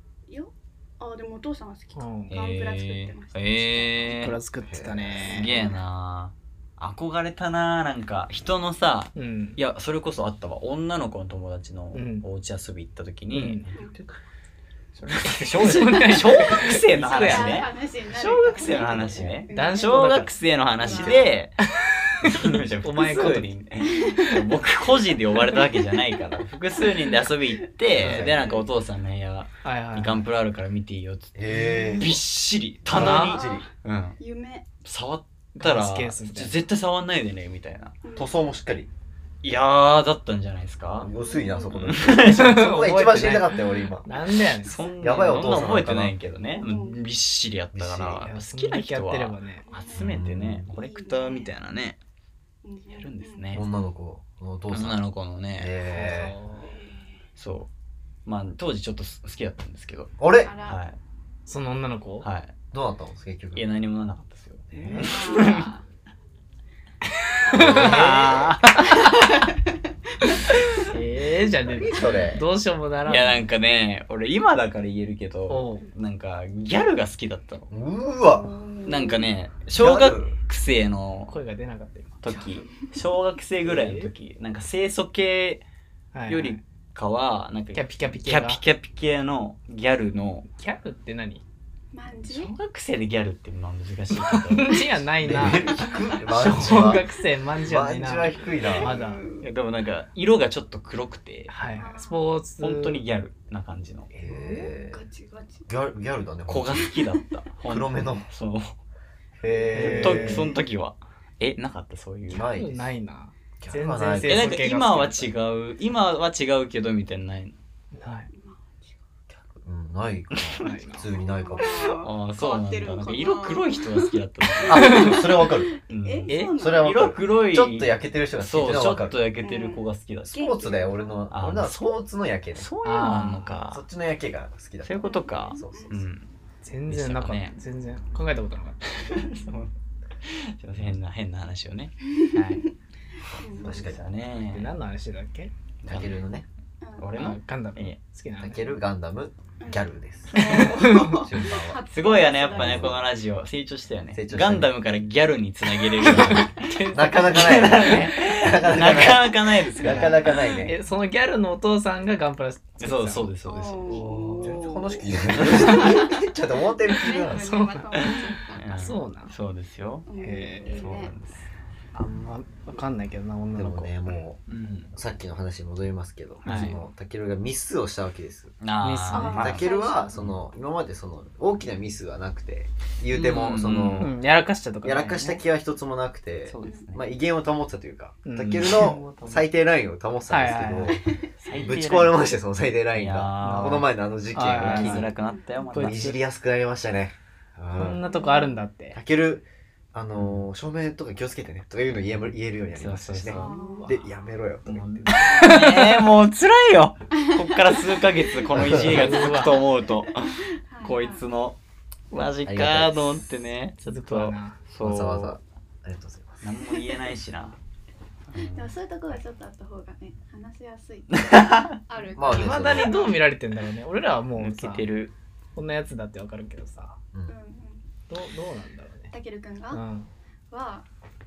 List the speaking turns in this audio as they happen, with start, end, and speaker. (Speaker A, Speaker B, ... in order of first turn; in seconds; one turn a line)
Speaker A: 0.3-4.2
Speaker B: 1.9-2.3
Speaker C: 2.3-4.4
Speaker B: 4.0-5.5
Speaker D: 4.6-5.5
Speaker C: 5.2-14.1
Speaker A: 5.5-5.8
Speaker B: 9.1-9.6
Speaker B: 11.9-12.2
Speaker B: 13.3-13.6
Speaker C: 14.9-21.5
Speaker B: 15.2-17.6
Speaker A: 16.1-21.3
Speaker D: 18.7-19.4
Speaker B: 19.5-20.3
Speaker D: 20.8-21.3
Speaker B: 21.6-23.5
Speaker C: 22.2-31.4
Speaker A: 23.8-25.6
Speaker B: 24.1-24.4
Speaker D: 27.9-28.5
Speaker A: 28.0-28.6
Speaker B: 29.6-30.2
Speaker D: 31.4-32.2
Speaker B: 31.5-31.8
Speaker A: 31.5-32.1
Speaker C: 31.9-34.2
Speaker D: 32.9-33.6
Speaker B: 32.9-33.4
Speaker A: 33.0-33.7
Speaker A: 34.2-34.7
Speaker C: 34.8-37.9
Speaker B: 35.5-36.5
Speaker A: 38.0-38.4
Speaker D: 38.1-38.9
Speaker C: 39.4-41.1
Speaker D: 40.9-44.1
Speaker A: 41.1-42.0
Speaker C: 41.7-42.6
Speaker B: 42.2-44.8
Speaker C: 44.6-52.0
Speaker A: 44.8-45.1
Speaker D: 45.0-46.1
Speaker A: 46.5-47.0
Speaker D: 47.7-48.3
Speaker B: 48.2-49.6
Speaker A: 49.6-50.1
Speaker D: 49.9-50.7
Speaker A: 50.7-51.5
Speaker A: 52.6-53.6
Speaker C: 52.9-53.6
Speaker D: 53.5-55.0
Speaker C: 54.7-55.8
Speaker D: 55.5-56.3
Speaker B: 55.9-56.8
Speaker A: 55.9-57.1
Speaker C: 57.4-57.7
Speaker C: 58.2-61.0
Speaker D: 60.2-60.5
Speaker A: 60.4-60.8
Speaker B: 61.5-62.3
Speaker C: 62.2-62.5
Speaker D: 62.7-63.7
Speaker C: 63.5-65.7
Speaker D: 64.7-65.1
Speaker A: 64.9-65.8
Speaker B: 67.4-69.0
Speaker A: 67.5-68.0
Speaker C: 67.5-68.9
Speaker D: 67.5-68.2
Speaker A: 68.9-69.7
Speaker A: 70.2-70.9
Speaker B: 70.8-73.4
Speaker D: 71.6-72.4
Speaker C: 73.0-77.7
Speaker B: 75.5-75.9
Speaker D: 77.7-78.5
Speaker A: 78.2-79.3
Speaker C: 78.8-81.3
Speaker D: 79.7-80.3
Speaker B: 81.3-82.2
Speaker C: 82.2-85.6
Speaker B: 83.7-84.1
Speaker B: 86.1-86.6
Speaker C: 86.3-90.5
Speaker B: 87.7-88.6
Speaker B: 90.5-91.4
Speaker A: 91.9-92.5
Speaker C: 92.3-95.7
Speaker B: 94.1-99.2
Speaker D: 95.2-97.1
Speaker C: 96.4-96.9
Speaker D: 97.6-99.0
Speaker A: 98.6-99.5
Speaker C: 99.4-101.5
Speaker B: 101.5-103.0
Speaker A: 101.7-102.3
Speaker C: 102.6-104.1
Speaker D: 104.1-105.0
Speaker B: 104.2-104.7
Speaker A: 104.7-105.7
Speaker D: 105.7-107.0
Speaker C: 106.5-108.8
Speaker D: 107.6-108.3
Speaker D: 109.4-110.5
Speaker A: 109.5-110.0
Speaker B: 109.7-110.5
Speaker C: 109.8-112.5
Speaker D: 112.3-112.9
Speaker B: 112.4-115.3
Speaker D: 113.6-114.6
Speaker C: 114.2-117.5
Speaker B: 117.9-118.3
Speaker A: 118.3-118.9
Speaker D: 119.5-121.7
Speaker C: 120.3-120.7
Speaker B: 120.6-121.1
Speaker A: 121.0-127.2
Speaker C: 121.6-125.3
Speaker D: 124.7-125.8
Speaker C: 125.9-130.5
Speaker B: 126.3-126.5
Speaker D: 126.5-129.2
Speaker A: 129.4-131.3
Speaker D: 130.3-132.7
Speaker C: 131.3-132.0
Speaker C: 132.6-133.8
Speaker B: 132.8-133.6
Speaker D: 133.7-136.0
Speaker C: 134.8-136.3
Speaker A: 135.0-136.0
Speaker B: 136.6-138.8
Speaker C: 136.9-137.6
Speaker C: 138.9-139.7
Speaker C: 140.2-142.7
Speaker A: 142.2-142.7
Speaker D: 143.4-144.0
Speaker A: 143.4-143.8
Speaker C: 143.4-144.7
Speaker B: 144.5-145.5
Speaker C: 145.8-146.2
Speaker D: 145.8-146.4
Speaker A: 146.8-147.1
Speaker C: 147.0-148.0
Speaker B: 147.1-148.6
Speaker D: 148.4-151.8
Speaker A: 149.6-153.1
Speaker C: 150.3-150.9
Speaker B: 150.8-151.1
Speaker C: 151.9-160.6
Speaker D: 152.5-153.1
Speaker D: 154.1-154.7
Speaker D: 156.0-160.7
Speaker B: 156.0-158.2
Speaker B: 159.8-163.3
Speaker C: 162.8-164.1
Speaker A: 163.4-166.2
Speaker B: 163.8-164.7
Speaker D: 164.4-167.7
Speaker A: 166.8-169.0
Speaker B: 167.3-167.9
Speaker C: 167.9-170.1
Speaker B: 168.7-169.3
Speaker A: 170.1-171.1
Speaker B: 170.2-170.9
Speaker C: 170.7-171.5
Speaker B: 171.9-173.9
Speaker D: 173.5-174.4
Speaker C: 174.5-174.9
Speaker D: 174.9-178.5
Speaker C: 176.4-176.8
Speaker B: 176.4-176.7
Speaker C: 178.6-180.3
Speaker B: 178.8-179.6
Speaker A: 179.1-180.2
Speaker D: 179.4-184.2
Speaker C: 183.1-184.2
Speaker B: 184.0-185.3
Speaker D: 184.8-195.1
Speaker C: 184.9-185.4
Speaker C: 186.4-187.0
Speaker A: 186.6-186.9
Speaker B: 188.2-188.9
Speaker C: 188.4-189.5
Speaker B: 190.3-191.0
Speaker A: 191.0-191.3
Speaker C: 191.4-192.2
Speaker C: 192.9-196.2
Speaker B: 193.4-195.1
Speaker A: 195.1-195.7
Speaker B: 195.7-196.1
Speaker D: 195.7-198.0
Speaker B: 197.7-199.0
Speaker A: 198.0-198.6
Speaker D: 198.9-205.3
Speaker C: 200.2-200.4
Speaker C: 202.7-203.6
Speaker A: 203.3-204.0
Speaker B: 203.3-204.0
Speaker C: 204.7-211.6
Speaker B: 205.1-206.1
Speaker A: 207.2-208.4
Speaker D: 208.5-209.0
Speaker B: 208.7-209.6
Speaker A: 209.1-211.2
Speaker C: 212.1-215.4
Speaker D: 212.4-213.1
Speaker B: 213.9-214.6
Speaker D: 214.8-216.4
Speaker C: 216.4-217.6
Speaker A: 216.7-217.0
Speaker C: 218.3-218.7
Speaker A: 218.5-223.1
Speaker C: 221.1-221.8
Speaker D: 222.2-222.9
Speaker B: 222.3-224.8
Speaker C: 224.4-225.1
Speaker B: 225.6-227.0
Speaker A: 227.3-227.8
Speaker B: 228.1-229.1
Speaker A: 229.1-229.8
Speaker B: 229.7-230.1
Speaker A: 230.5-230.8